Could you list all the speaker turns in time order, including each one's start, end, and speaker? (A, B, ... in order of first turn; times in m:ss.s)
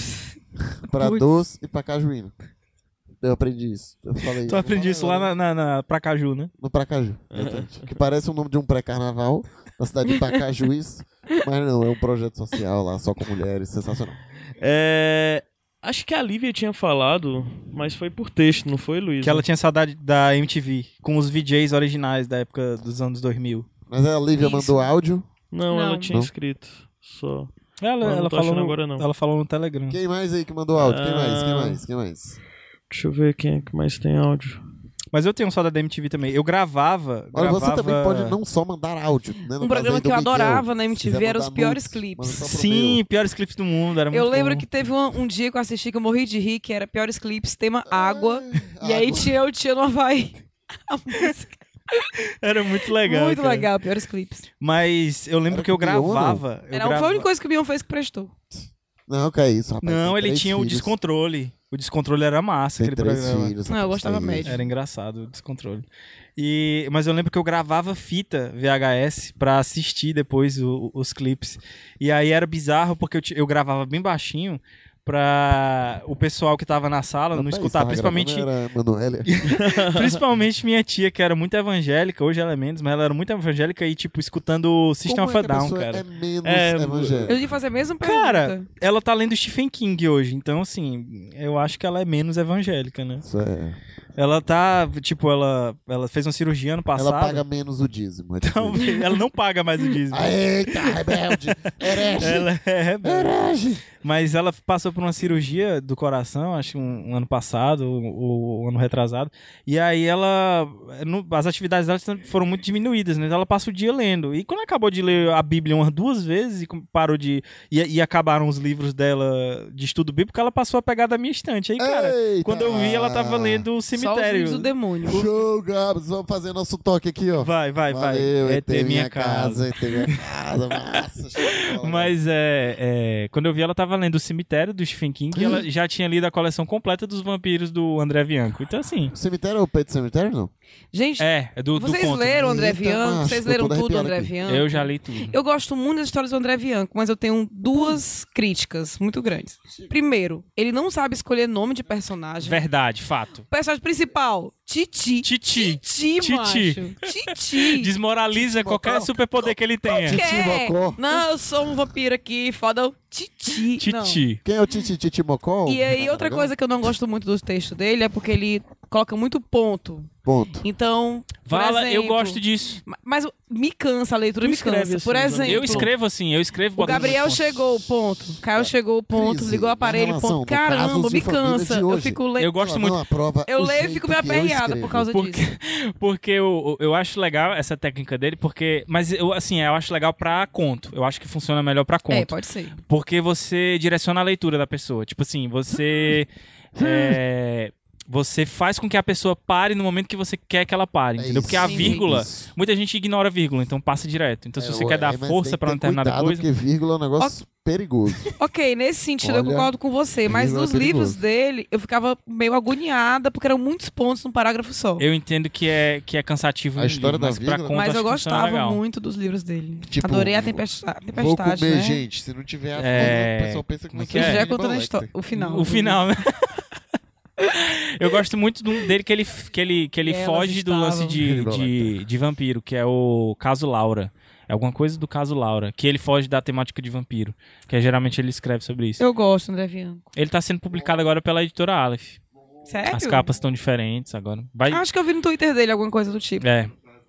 0:00.9-0:02.3 A
0:03.2-0:05.3 A
0:04.4-0:06.5 B
0:06.6-0:14.2 A
0:07.3-0:07.9 C
0:14.6-0:19.4 C
0:19.2-0:23.7 B
0:23.9-0:25.3 A
0:24.4-0:24.9 D
0:25.5-0:27.5 C
0:25.7-0:26.1 D
0:27.8-0:30.0 B
0:28.0-0:29.0 C
0:29.9-0:32.4 A
0:30.8-0:31.8 C
0:32.9-0:34.6 C
0:35.1-0:38.4 B
0:37.3-0:43.0 A
0:39.6-0:42.4 D
0:42.4-0:44.7 B
0:44.1-0:52.1 D
0:47.9-0:49.4 A
0:52.4-0:53.7 B
0:53.0-0:54.5 D
0:54.6-0:57.3 B
0:55.5-0:56.4 A
0:56.7-0:58.3 D
0:59.1-1:00.9 A
0:59.8-1:03.6 B
1:02.8-1:04.6 A
1:03.7-1:04.6 D
1:04.4-1:05.9 B
1:06.4-1:18.5 B
1:17.3-1:19.3 A
1:19.3-1:26.0 B
1:19.6-1:20.2 C
1:25.1-1:27.4 A
1:26.4-1:27.3 C
1:27.3-1:28.7 D
1:28.0-1:33.2 B
1:33.2-1:33.8 A
1:34.2-1:37.4 B
1:37.0-1:39.0 A
1:38.4-1:40.4 B
1:40.1-1:42.5 A
1:42.2-1:43.4 B
1:43.0-1:43.8 A
1:44.0-2:04.7 B
2:01.8-2:03.7 A
2:04.0-2:05.3 D
2:05.1-2:12.1 A
2:07.4-2:09.7 B
2:11.4-2:19.1 B
2:15.3-2:15.6 A
2:19.1-2:20.5 A
2:20.9-2:32.6 D
2:21.2-2:22.6 B
2:22.3-2:24.3 A
2:24.5-2:25.4 B
2:32.4-2:33.4 B
2:33.5-2:37.9 D
2:35.2-2:36.8 B
2:37.6-2:40.2 B
2:38.4-2:41.2 A
2:40.1-2:44.2 D
2:43.8-2:44.4 B
2:44.4-2:46.5 A
2:45.7-2:50.1 D
2:50.2-2:50.6 A
2:50.6-2:55.9 D
2:51.5-2:52.8 B
2:54.4-2:55.9 C
2:55.4-2:57.8 B
2:56.8-3:02.6 D
2:56.9-2:57.2 A
2:58.5-3:05.1 A
3:02.4-3:03.0 B
3:03.5-3:05.5 D
3:05.1-3:12.3 B
3:12.1-3:12.8 D
3:12.9-3:26.5 B
3:16.8-3:17.2 A
3:21.2-3:22.5 A
3:21.6-3:22.1 D
3:24.6-3:28.3 A
3:28.4-3:35.0 D
3:29.2-3:29.7 A
3:30.3-3:31.2 A
3:35.0-3:38.8 B
3:36.8-3:37.8 A
3:37.7-3:42.0 D
3:39.9-3:45.1 A
3:42.8-3:44.5 B
3:44.1-3:46.0 D
3:45.3-3:46.2 B
3:47.6-3:59.0 B
3:50.0-3:51.2 D
3:51.2-3:51.9 A
3:59.0-4:00.1 D
4:00.2-4:02.2 B
4:02.7-4:03.3 D
4:02.9-4:04.8 B
4:04.7-4:06.4 D
4:06.4-4:06.7 B